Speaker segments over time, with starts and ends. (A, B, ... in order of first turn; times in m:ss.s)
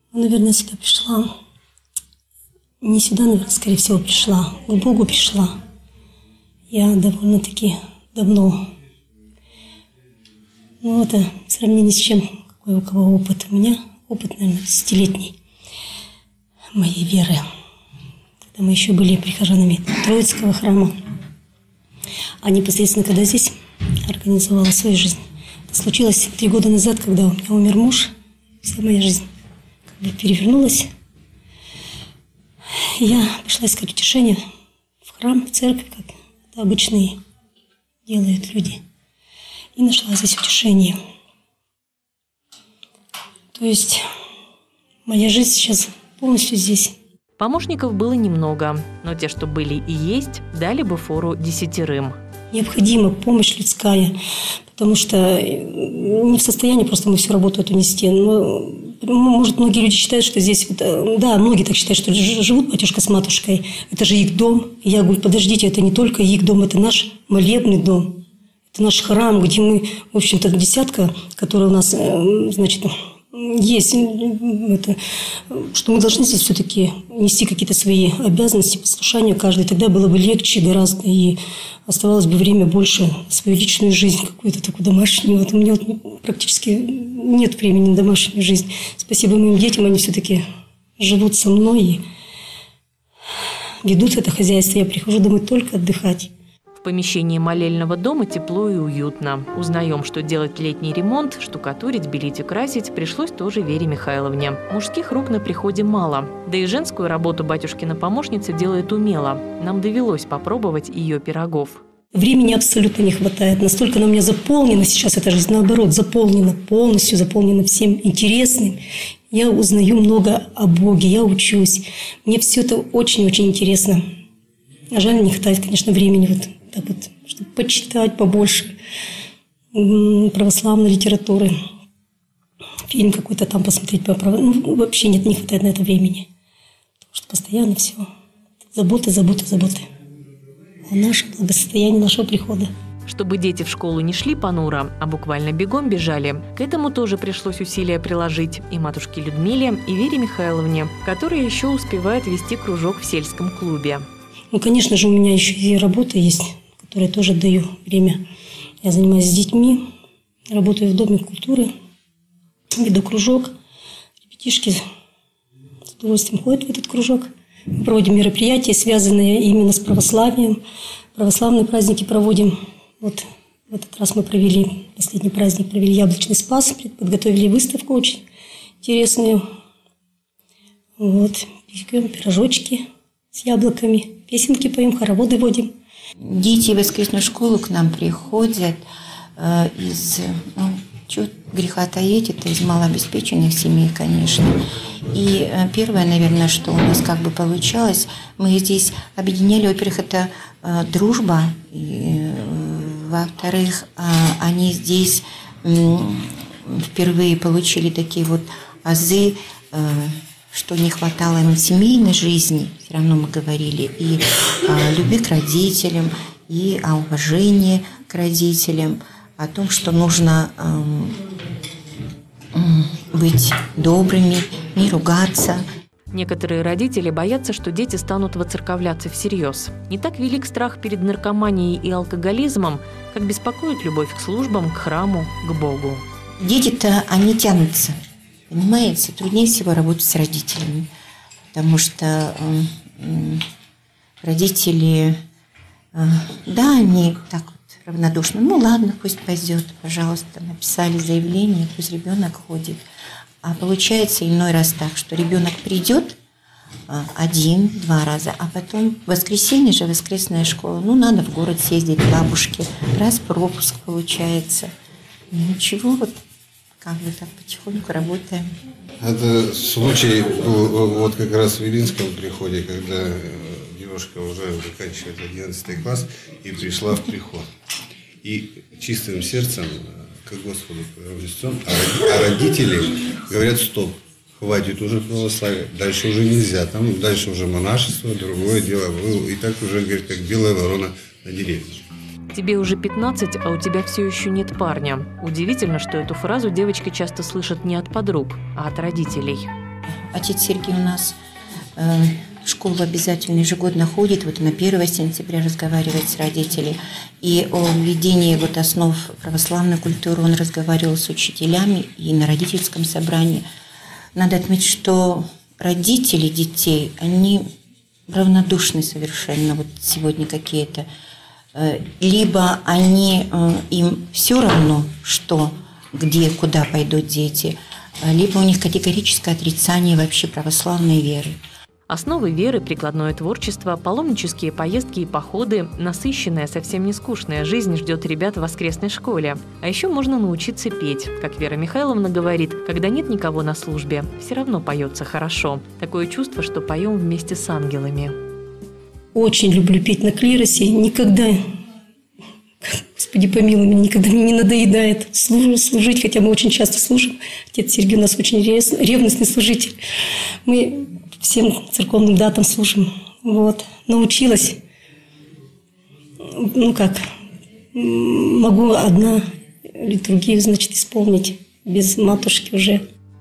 0:00.1-0:01.3 A
0:02.8-0:05.6 A
0:06.7-0:08.7 A
0:10.8-0:15.3 A
0:16.7-0:17.4 A
0:18.5-0:21.0 A
0:22.4-0:28.1 A
0:28.6-0:29.2 A
0:30.0-0:30.9 A
0:33.0-0:34.4 A
0:35.0-0:37.2 A
0:38.0-0:38.8 A
0:39.8-0:41.0 A
0:43.5-0:44.0 A
0:45.0-0:46.9 A
0:47.4-0:52.2 B
0:52.5-0:54.2 A
0:54.7-1:15.0 A
1:15.5-1:30.4 A
1:31.0-1:32.0 A
1:33.8-1:36.3 A
1:36.8-1:51.8 B
1:52.1-2:04.0 A
2:04.9-2:08.7 A
2:09.7-2:11.6 A
2:12.9-2:16.3 A
2:17.1-2:18.1 A
2:18.7-2:19.9 A
2:20.8-2:22.7 A
2:23.1-2:34.0 B
2:34.5-2:38.2 A
2:38.8-2:39.8 A
2:40.5-2:41.7 A
2:42.8-2:43.6 A
2:44.3-2:44.8 A
2:45.9-2:50.6 A
2:51.1-2:58.2 A
2:58.8-2:59.4 A
3:01.0-3:05.7 A
3:06.2-3:08.8 C
3:09.4-3:14.5 C
3:15.1-3:41.2 C
3:42.5-3:45.6 C
3:46.1-3:56.0 B
3:56.4-3:58.0 C
3:58.5-4:00.9 C
4:01.5-4:03.4 C
4:04.2-4:05.2 C
4:05.9-4:12.8 C
4:13.4-4:16.2 C
4:16.9-4:24.7 C
4:25.3-4:26.2 C
4:26.8-4:28.5 C
4:29.0-4:37.5 D
4:38.2-4:51.8 D
4:52.3-4:59.5 B
4:59.9-5:01.2 C
5:01.8-5:13.4 C
5:14.1-5:17.4 C
5:18.1-5:20.9 C
5:21.5-5:31.4 C
5:31.9-5:48.2 B
5:49.1-5:51.4 A
5:52.6-5:59.8 A
6:00.4-6:04.6 A
6:06.2-6:07.0 A
6:07.7-6:12.8 A